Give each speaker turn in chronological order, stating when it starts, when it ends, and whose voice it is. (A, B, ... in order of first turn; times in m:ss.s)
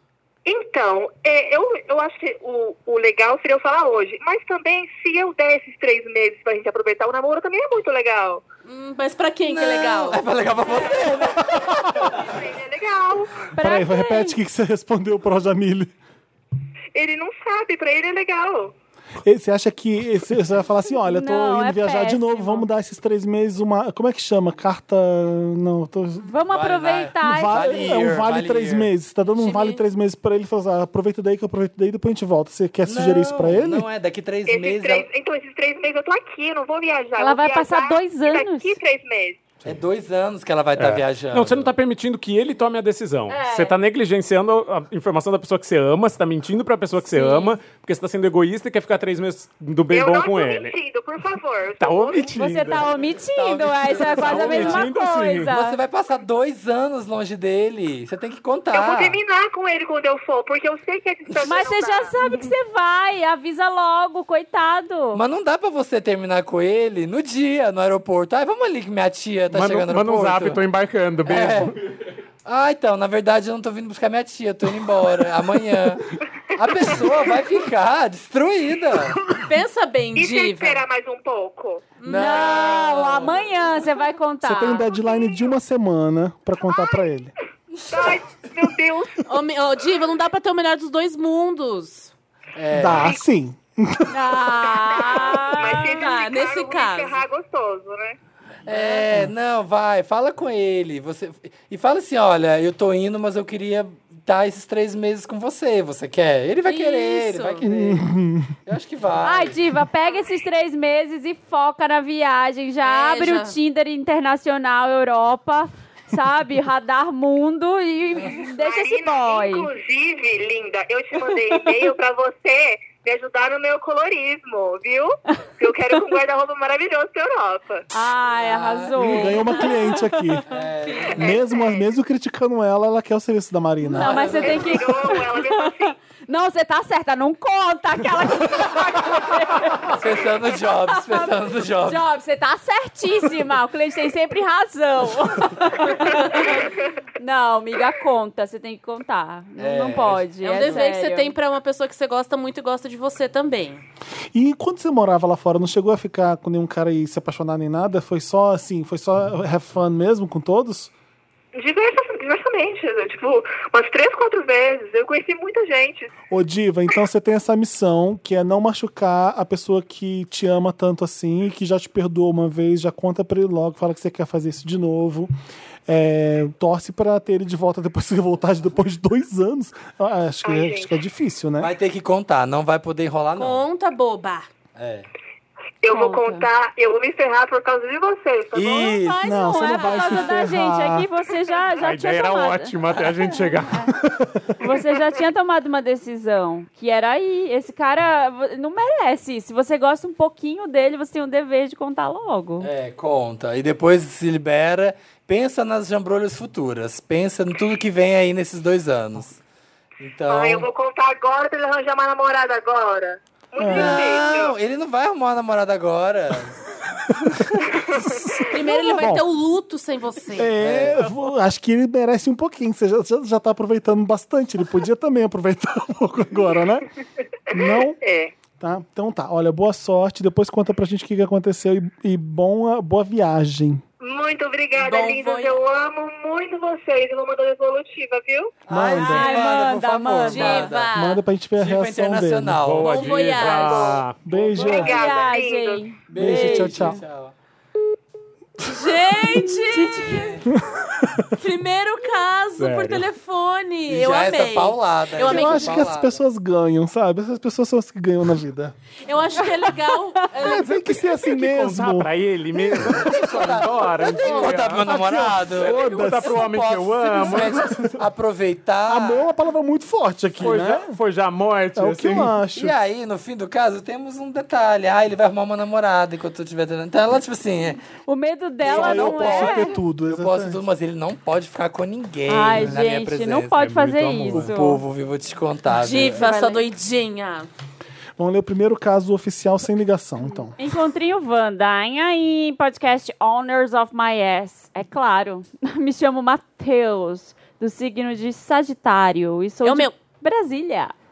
0:00.4-0:08.4 A
0:08.6-0:10.3 B
0:09.5-0:11.5 C
0:10.7-0:13.5 A
0:13.5-0:14.4 D
0:13.6-0:15.9 E
0:17.0-0:18.7 A
0:19.2-0:26.3 E
0:20.9-0:22.7 D
0:26.2-0:27.8 D
0:26.5-0:28.9 C
0:27.2-0:33.9 E
0:29.4-0:29.8 B
0:32.8-0:35.1 C
0:34.5-0:39.4 A
0:37.2-0:38.8 D
0:39.6-0:41.7 C
0:40.8-0:50.8 F
0:43.3-0:43.7 D
0:47.1-0:47.5 D
0:49.9-0:52.4 A
0:51.8-0:52.9 F
0:52.3-0:55.8 D
0:53.4-0:54.9 C
0:53.9-0:55.5 F
0:55.5-0:59.2 C
0:58.7-1:02.2 A
1:01.5-1:05.2 D
1:05.1-1:10.6 C
1:09.5-1:11.8 F
1:11.2-1:11.8 C
1:12.4-1:19.2 C
1:19.4-1:20.8 B
1:20.2-1:22.0 A
1:22.0-1:22.6 B
1:22.0-1:23.4 C
1:22.1-1:24.9 D
1:24.4-1:27.3 E
1:27.9-1:29.3 A
1:29.3-1:32.1 B
1:32.6-1:33.2 C
1:32.7-1:34.2 E
1:34.1-1:36.1 D
1:34.4-1:38.2 A
1:35.8-1:37.2 B
1:38.7-1:48.1 C
1:38.7-1:39.1 B
1:46.6-1:47.6 B
1:47.6-1:48.6 E
1:48.6-1:49.6 C
1:49.2-1:59.7 D
1:52.8-1:53.6 B
1:58.4-2:07.9 A
2:07.9-2:10.4 D
2:08.4-2:09.4 C
2:09.0-2:10.5 E
2:10.5-2:11.3 C
2:10.6-2:11.4 B
2:11.2-2:14.2 E
2:11.2-2:11.8 A
2:13.8-2:20.3 D
2:14.1-2:14.4 C
2:14.2-2:16.0 A
2:14.2-2:14.5 B
2:19.9-2:22.0 C
2:20.8-2:31.4 D
2:29.6-2:30.8 C
2:30.4-2:33.8 B
2:34.3-2:40.9 E
2:41.6-2:46.1 A
2:46.3-2:55.3 E
2:55.9-3:01.7 E
3:00.4-3:01.0 A
3:01.6-3:03.6 C
3:03.4-3:04.5 B
3:04.8-3:05.1 C
3:05.8-3:09.0 A
3:05.9-3:06.5 D
3:08.5-3:09.2 C
3:09.0-3:10.3 B
3:09.2-3:14.0 D
3:09.2-3:11.1 E
3:11.8-3:13.9 F
3:14.1-3:14.5 E
3:14.6-3:22.7 D
3:22.6-3:29.4 C
3:30.0-3:30.7 C
3:30.3-3:34.6 A
3:33.6-3:34.0 E
3:33.6-3:36.6 C
3:37.9-3:38.4 A
3:38.0-3:39.2 E
3:38.5-3:40.5 B
3:40.4-3:46.9 E
3:40.6-3:41.0 C
3:47.5-3:48.0 E
3:47.5-3:48.3 A
3:48.6-3:53.8 E
3:54.0-3:58.6 A
3:54.8-3:55.6 B
3:58.7-4:00.9 C
3:58.7-3:59.4 E
3:58.9-4:00.7 D
4:00.2-4:01.2 B
4:00.9-4:02.6 E
4:01.6-4:03.2 C
4:02.6-4:04.3 F
4:02.8-4:04.1 B
4:04.2-4:05.0 E
4:04.3-4:04.8 C
4:04.6-4:05.9 A
4:04.6-4:07.0 D
4:06.1-4:07.3 C
4:06.1-4:07.0 E
4:08.6-4:10.3 B
4:09.6-4:10.3 D
4:10.0-4:10.4 C
4:10.5-4:11.3 E
4:11.4-4:15.8 B
4:12.6-4:13.1 F
4:13.9-4:16.2 C
4:15.2-4:18.8 E
4:19.0-4:21.0 B
4:20.4-4:23.4 E
4:21.2-4:24.9 F
4:22.9-4:29.3 C
4:24.1-4:26.4 E
4:25.5-4:28.0 F
4:27.3-4:27.9 E
4:28.9-4:31.0 E
4:30.4-4:32.3 F
4:31.8-4:32.8 E
4:32.6-4:37.8 C
4:38.1-4:39.7 D
4:38.6-4:46.3 C
4:38.6-4:40.6 E
4:42.3-4:44.8 D
4:43.6-4:44.5 F
4:45.7-4:47.5 B
4:46.1-4:46.7 D
4:48.2-4:50.5 E
4:50.6-5:00.9 D
4:59.6-5:00.0 B